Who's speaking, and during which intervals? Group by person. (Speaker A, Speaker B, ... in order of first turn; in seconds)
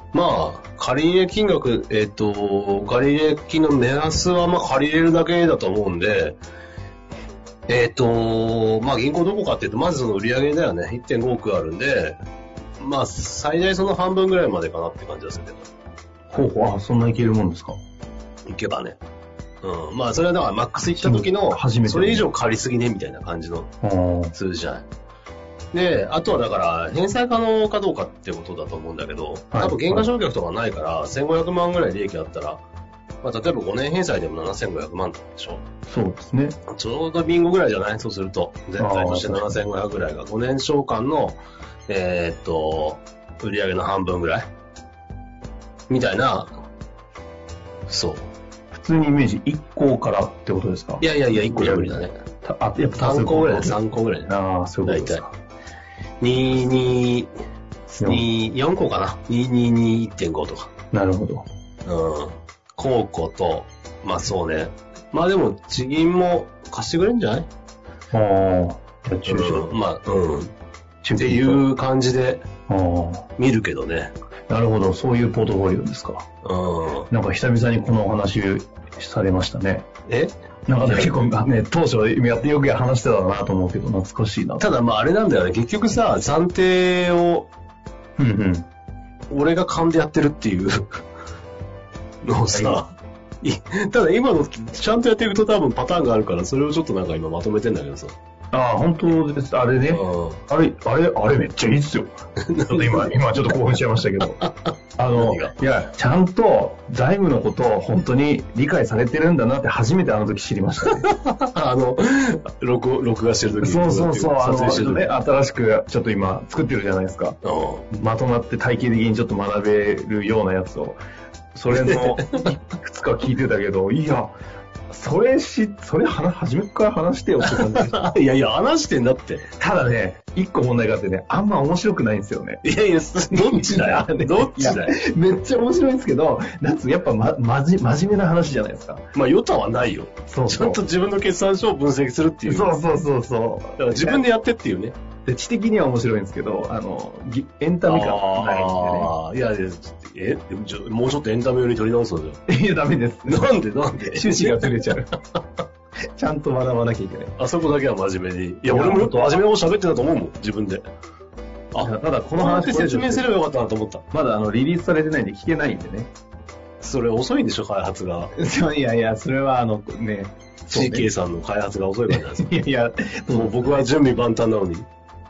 Speaker A: 0.1-6.4, 7.7-12.2, 12.8-15.7, 18.5-19.0, 19.6-23.7, 24.3-24.9, 25.7-32.6, 33.2-35.6, 36.7-44.5, 45.9-46.5, 47.9-48.3, 51.0-52.1, 53.0-54.3, 54.9-55.3, 56.2-57.3, 57.9-60.7, 61.9-67.5, 69.3-70.5, 71.2-72.5, 73.4-74.1, 76.4-77.1, 80.1-81.3, 84.6-87.5, 89.3-91.0, 92.2-98.2, 99.9-100.4, 102.5-103.1, 104.4-105.5, 110.9-115.1, 117.4-117.9, 121.7-122.5, 127.5-129.5, 132.6-135.0, 139.2-142.8, 143.8-145.0, 147.8-152.4, 153.3-155.0, 157.4-160.8, 161.7-164.0, 166.8-168.3, 170.7-172.6, 173.3-174.9
Speaker B: 16.3-17.8, 20.9-22.3, 23.8-24.3, 29.5-30.1, 35.9-36.6, 38.8-39.6, 48.7-55.3, 60.9-61.5, 68.1-69.7, 71.0-71.6, 72.7-73.3, 74.5-76.3, 77.1-79.9, 80.7-84.7, 88.2-88.7, 92.5-92.8, 98.5-102.1, 102.7-104.4, 105.0-111.1, 113.6-117.4, 117.9-121.0, 121.5-124.3, 124.9-128.1, 129.6-132.6, 133.3-139.1, 140.3-140.8, 142.5-144.2, 145.3-149.1, 152.5-153.5, 154.0-155.1, 156.2-157.3, 158.7-159.4, 161.8-163.3, 164.1-166.1, 168.3-171.1, 172.1-173.8